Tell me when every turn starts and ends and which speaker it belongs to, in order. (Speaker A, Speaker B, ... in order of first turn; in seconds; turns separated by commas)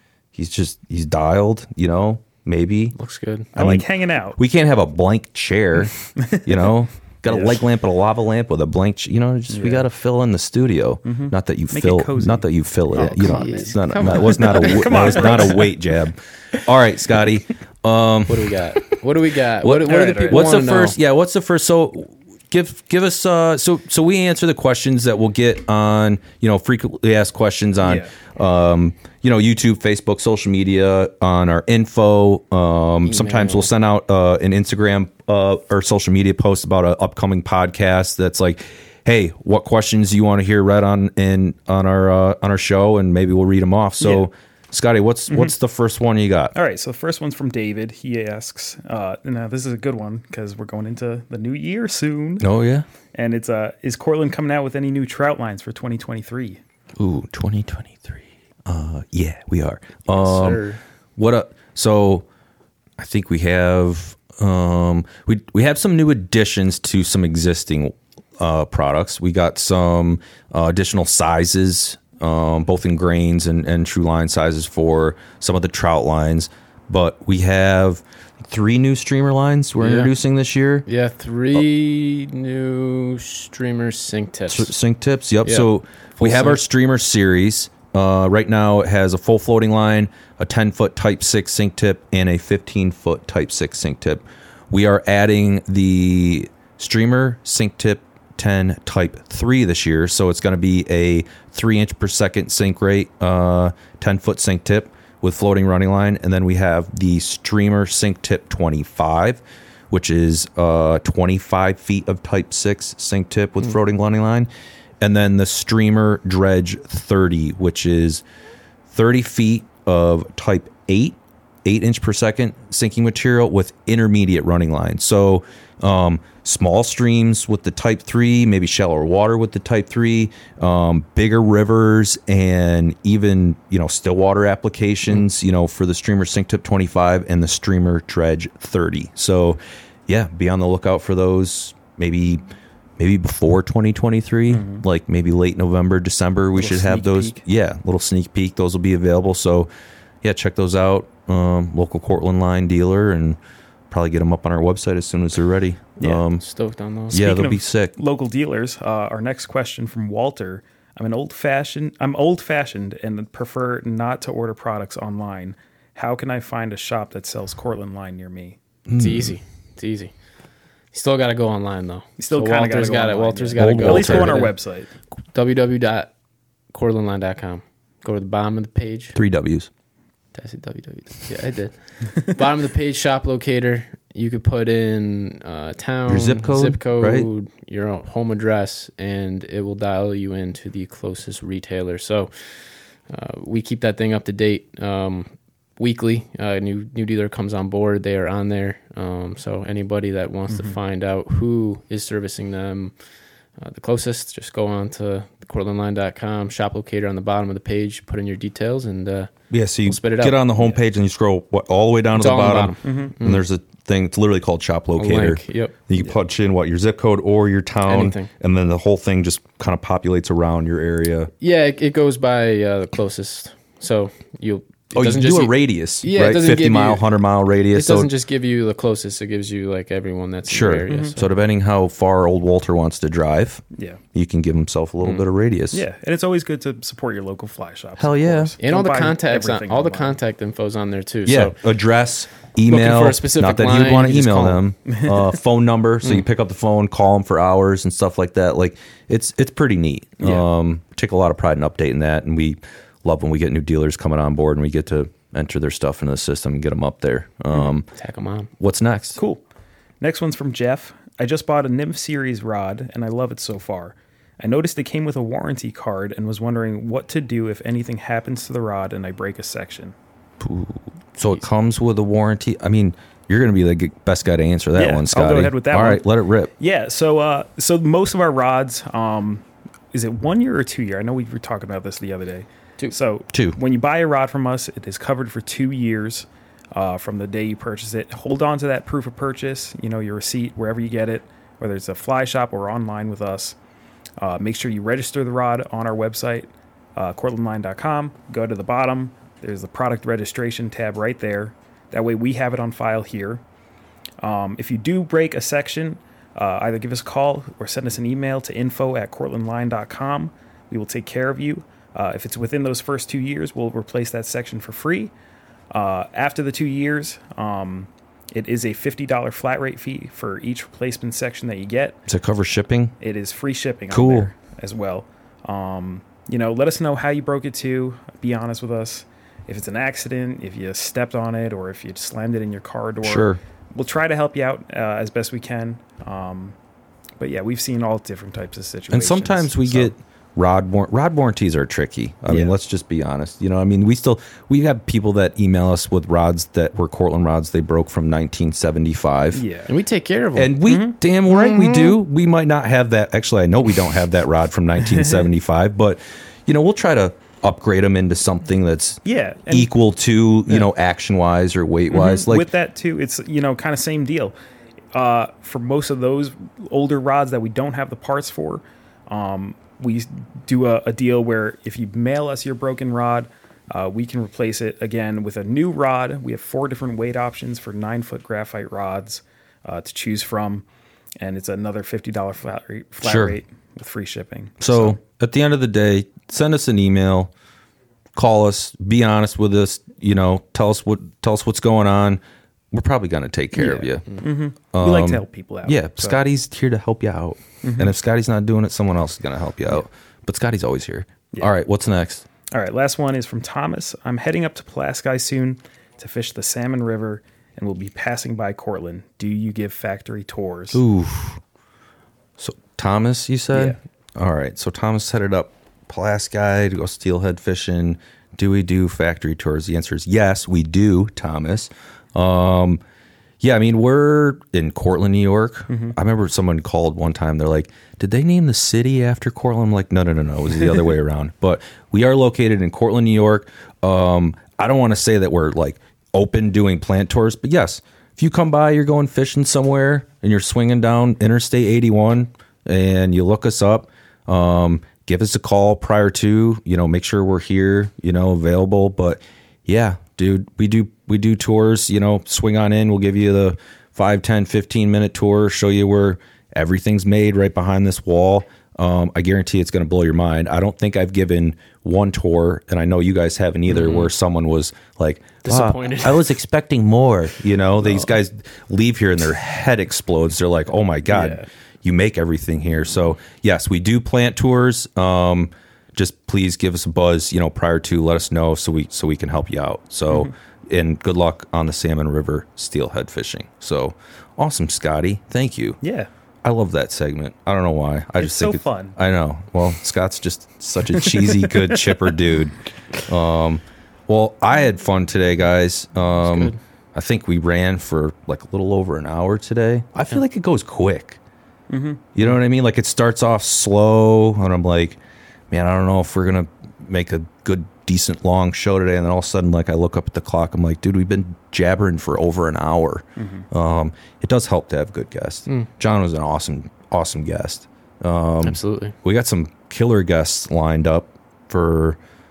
Speaker A: 0.3-3.0, Speaker B: 3.0-3.5, Speaker C: 3.5-4.4, Speaker A: 3.6-18.6, Speaker C: 6.2-6.6, Speaker C: 7.3-7.6, Speaker C: 9.5-9.9, Speaker C: 11.0-15.7, Speaker B: 13.0-15.6, Speaker B: 18.3-21.0, Speaker A: 19.6-46.5, Speaker C: 19.9-20.5, Speaker C: 27.8-28.1, Speaker B: 33.0-33.7, Speaker C: 44.0-44.3, Speaker C: 45.3-45.5, Speaker C: 46.5-52.5, Speaker A: 52.4-52.9, Speaker C: 53.1-56.6, Speaker A: 57.0-60.6, Speaker B: 60.1-60.8, Speaker A: 61.2-62.2, Speaker A: 63.0-80.9, Speaker B: 79.8-80.1, Speaker B: 80.9-84.7, Speaker A: 84.5-114.5, Speaker B: 85.5-86.6, Speaker A: 115.0-118.2, Speaker A: 118.9-142.4, Speaker A: 143.0-149.7, Speaker C: 144.5-144.8, Speaker C: 146.5-147.4, Speaker A: 150.2-153.4, Speaker A: 153.9-156.4, Speaker C: 156.0-156.2, Speaker B: 156.4-157.3, Speaker A: 157.1-157.9, Speaker C: 157.2-168.6, Speaker A: 168.9-169.4, Speaker B: 169.0-170.1, Speaker B: 170.9-174.5, Speaker C: 172.2-174.9, Speaker A: 173.6-174.5, Speaker B: 175.3-176.1, Speaker B: 176.7-179.2, Speaker A: 179.2-179.7, Speaker B: 180.3-203.0, Speaker A: 186.1-187.3, Speaker C: 200.5-200.8, Speaker B: 203.6-210.8, Speaker A: 209.5-221.3, Speaker B: 212.1-213.4, Speaker C: 212.8-213.1, Speaker B: 215.0-215.7, Speaker B: 217.9-218.3, Speaker B: 221.4-227.1, Speaker A: 224.9-228.1, Speaker B: 227.7-231.3, Speaker A: 230.5-235.8, Speaker C: 230.9-231.2, Speaker C: 233.7-234.0, Speaker C: 235.1-240.2, Speaker A: 238.0-238.5, Speaker B: 238.6-241.6, Speaker A: 241.3-257.9, Speaker B: 242.7-244.6, Speaker C: 244.9-245.2, Speaker C: 250.2-250.5, Speaker B: 257.9-258.5, Speaker A: 258.6-259.2, Speaker C: 259.1-259.4, Speaker C: 260.0-270.0, Speaker A: 270.4-276.5, Speaker C: 274.8-276.1, Speaker C: 276.6-293.6, Speaker A: 283.3-283.6, Speaker C: 294.2-303.4, Speaker C: 304.2-315.1, Speaker C: 315.7-322.0, Speaker A: 322.1-322.9, Speaker C: 323.0-336.6, Speaker A: 323.9-324.3, Speaker A: 333.0-333.4, Speaker C: 337.2-339.9, Speaker A: 338.9-349.4, Speaker C: 342.3-342.6, Speaker C: 349.3-349.7, Speaker B: 349.7-350.6, Speaker A: 350.4-362.5, Speaker C: 350.7-350.9, Speaker B: 351.3-352.0, Speaker C: 354.9-355.3, Speaker C: 359.0-359.7, Speaker C: 361.9-364.3, Speaker C: 364.9-380.6, Speaker C: 381.2-385.0, Speaker A: 383.0-383.4, Speaker A: 384.6-387.3, Speaker A: 388.1-392.2, Speaker A: 392.7-394.1, Speaker C: 393.6-396.2, Speaker A: 394.6-402.2, Speaker C: 397.6-397.9, Speaker C: 402.5-410.8, Speaker A: 410.7-411.4, Speaker A: 412.4-422.8, Speaker C: 413.5-413.8, Speaker A: 423.4-485.8, Speaker C: 425.7-426.0, Speaker C: 463.7-464.1, Speaker B: 465.4-466.3, Speaker C: 471.1-471.4, Speaker C: 485.8-486.1, Speaker A: 486.4-501.2, Speaker C: 488.2-489.0, Speaker C: 491.0-491.8, Speaker B: 496.2-496.6, Speaker C: 501.7-502.3, Speaker A: 502.1-505.0, Speaker A: 505.5-522.0, Speaker C: 513.2-513.5, Speaker B: 518.4-519.0